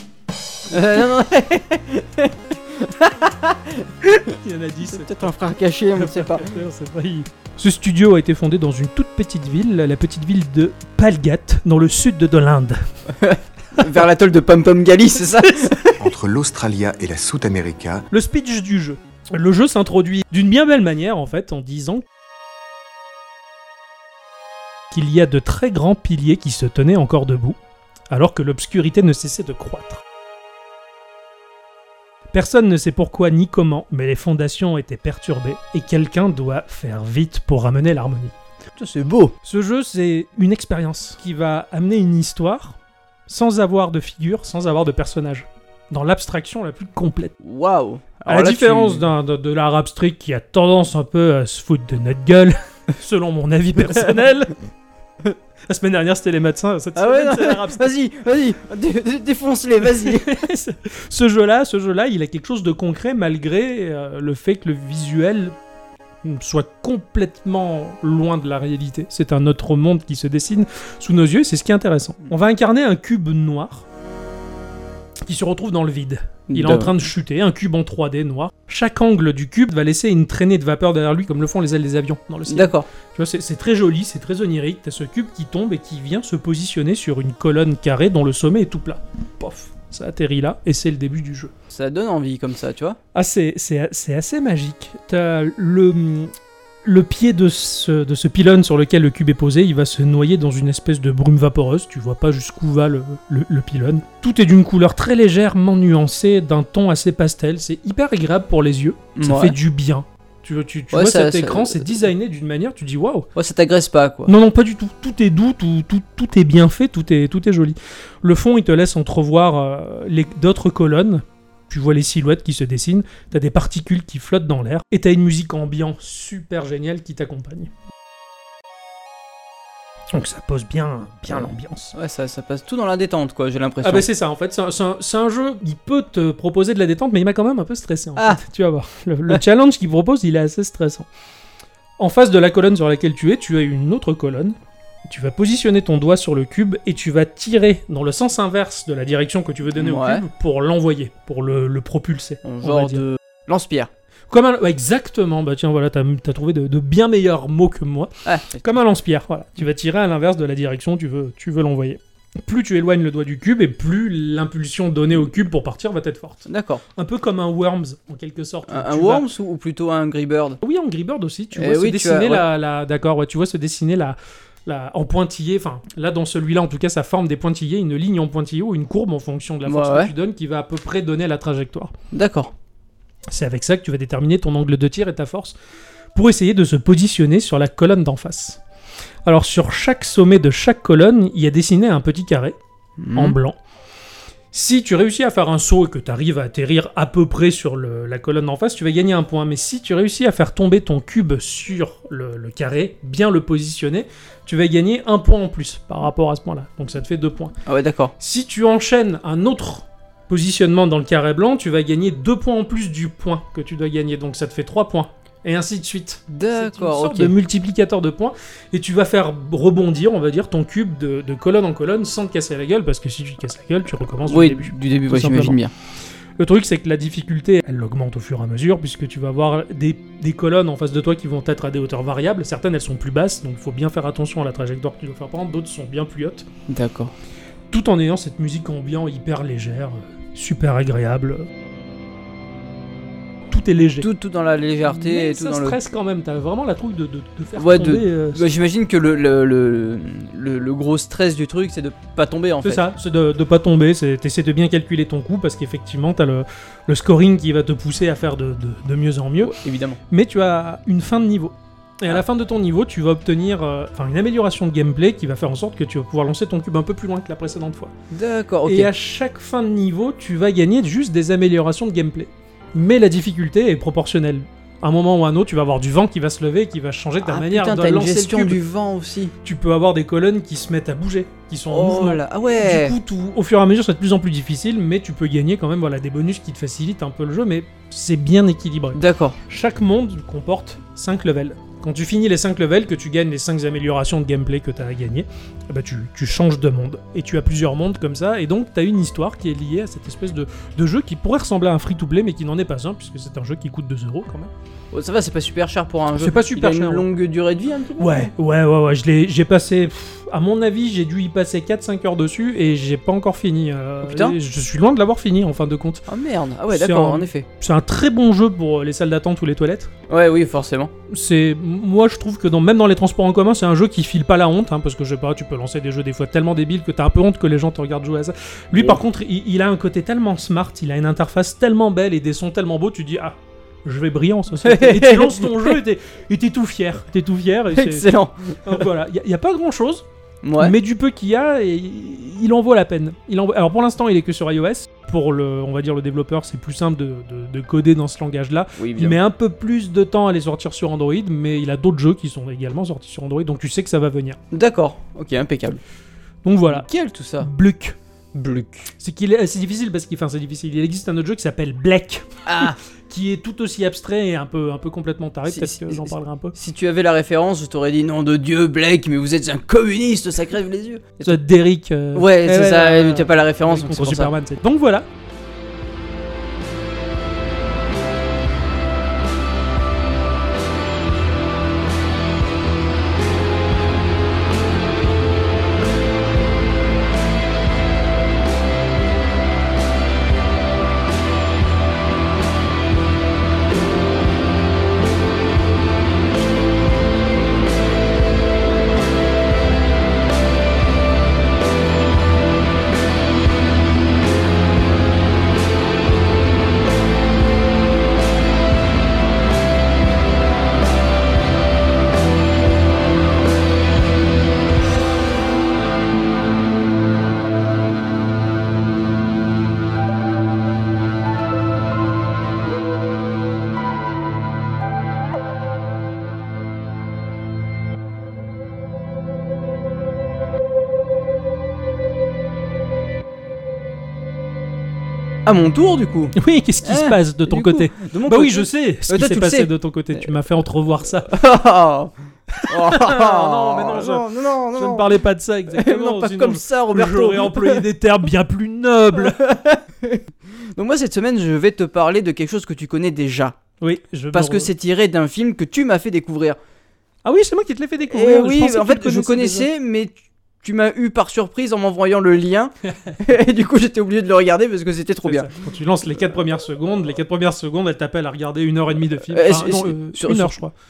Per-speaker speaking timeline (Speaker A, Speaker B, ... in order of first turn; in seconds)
Speaker A: 0.7-4.4, 4.9-6.5, 13.1-16.0, 38.8-39.4, 47.4-49.1, 57.0-60.3, 76.5-77.0, 82.5-82.9, 91.7-93.0, 109.2-109.6, 110.9-111.9, 113.4-114.3, 131.3-134.1, 149.8-150.2, 152.4-153.9, 158.2-158.7, 166.5-166.8, 168.7-170.6, 171.6-172.5, 179.7-180.1, 182.1-182.5, 193.0-193.4, 207.7-208.1, 216.3-217.3, 224.3-225.7, 236.7-237.1, 244.0-245.8, 247.6-252.8, 259.4-260.0, 268.1-268.9, 277.2-279.3, 281.7-283.0, 288.9-289.4, 304.9-308.3, 314.0-314.4, 316.1-317.5, 320.1-320.9, 334.6-335.8, 337.7-338.8, 340.4-340.7, 348.8-349.2, 354.5-355.8, 356.7-357.5, 358.3-358.9, 362.5-362.8, 365.5-371.4, 372.1-374.3, 435.5-439.7, 441.3-442.1, 442.6-445.1, 445.7-447.8, 449.2-453.6, 454.3-456.6, 458.1-465.5, 469.3-470.6
Speaker B: 4.4-5.3, 6.0-12.9, 15.5-15.7, 18.1-22.1, 24.9-27.6, 28.1-30.0, 32.3-38.4, 39.4-47.3, 48.3-54.6, 55.7-57.9, 59.8-65.6, 66.2-73.8, 75.2-91.5, 93.1-96.3, 96.8-113.3, 114.3-127.7, 130.1-131.9, 133.8-141.1, 142.0-153.0, 154.3-169.3, 170.6-181.9, 183.3-185.6, 186.1-188.6, 189.2-192.6, 193.2-193.6, 194.5-207.5, 208.2-225.6, 226.4-236.5, 237.7-241.5, 243.5-244.1, 244.9-248.4, 252.6-259.6, 260.1-267.9, 268.6-278.6, 279.4-304.5, 306.2-307.1, 308.0-316.1, 316.7-319.9, 321.1-338.1, 338.6-340.1, 340.6-354.4, 356.4-356.9, 357.4-358.0, 359.0-366.6, 371.2-375.1, 436.4-441.3, 442.6-449.4, 453.8-454.7, 457.2-459.7, 465.2-470.7
Speaker C: 16.0-18.1